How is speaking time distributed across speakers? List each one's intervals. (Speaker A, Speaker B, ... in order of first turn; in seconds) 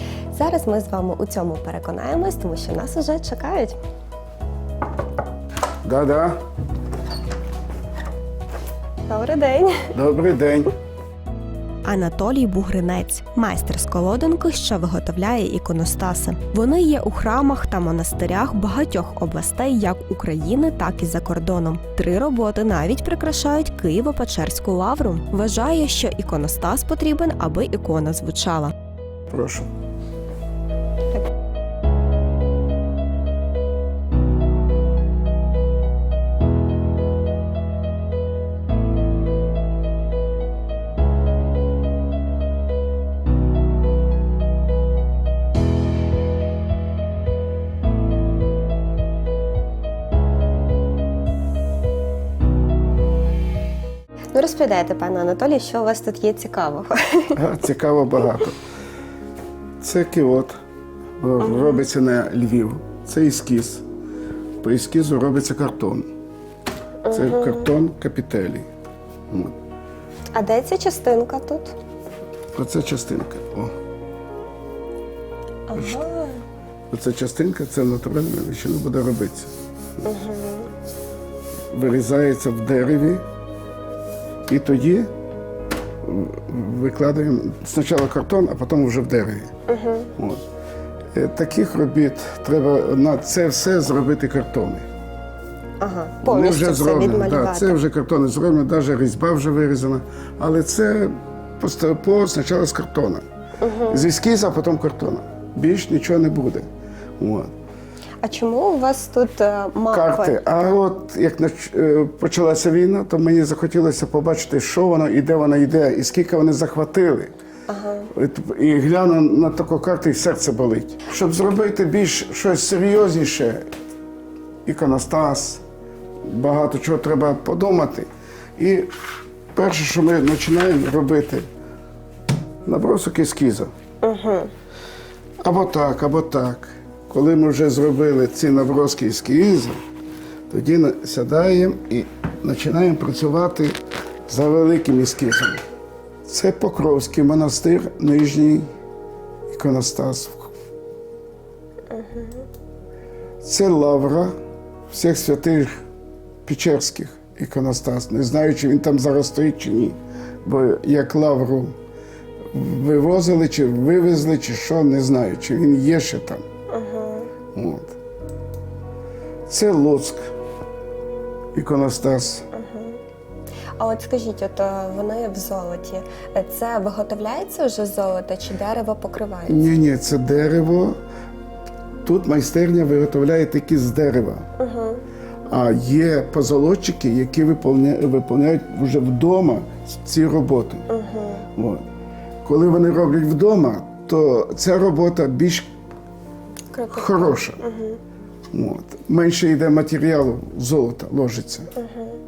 Speaker A: 0.3-3.8, 9.1-9.9, 11.8-28.7, 54.3-57.4, 61.4-61.9, 67.0-67.7, 70.3-71.8, 75.7-76.4, 80.0-80.7, 89.7-90.1, 95.8-97.8, 103.6-104.1, 108.2-110.4, 117.7-118.1, 134.0-134.5, 151.9-152.4, 166.7-167.3, 172.5-173.0, 173.8-179.7, 184.6-185.0, 190.9-191.5, 196.7-198.0, 201.8-202.2
Speaker B: 5.8-6.4, 9.9-10.7, 29.3-29.7, 57.3-58.6, 59.8-60.5, 61.2-63.9, 64.6-66.1, 67.1-68.7, 69.3-69.5, 72.5-73.8, 76.9-79.5, 81.7-83.2, 84.5-85.1, 86.0-89.5, 90.2-90.4, 91.1-94.8, 96.2-103.2, 103.9-106.7, 107.2-107.5, 109.9-117.3, 118.1-123.7, 124.7-125.6, 126.2-128.9, 129.6-131.4, 132.7-133.7, 135.4-139.8, 140.5-143.8, 144.3-145.6, 146.2-148.7, 149.5-150.5, 153.4-154.3, 154.9-155.8, 156.5-161.8, 162.5-166.4, 167.5-167.9, 169.5-170.3, 171.5-172.5, 179.5-181.0, 182.0-184.5, 185.5-190.9, 191.6-191.8, 192.4-195.7, 196.9-197.6, 198.5-201.7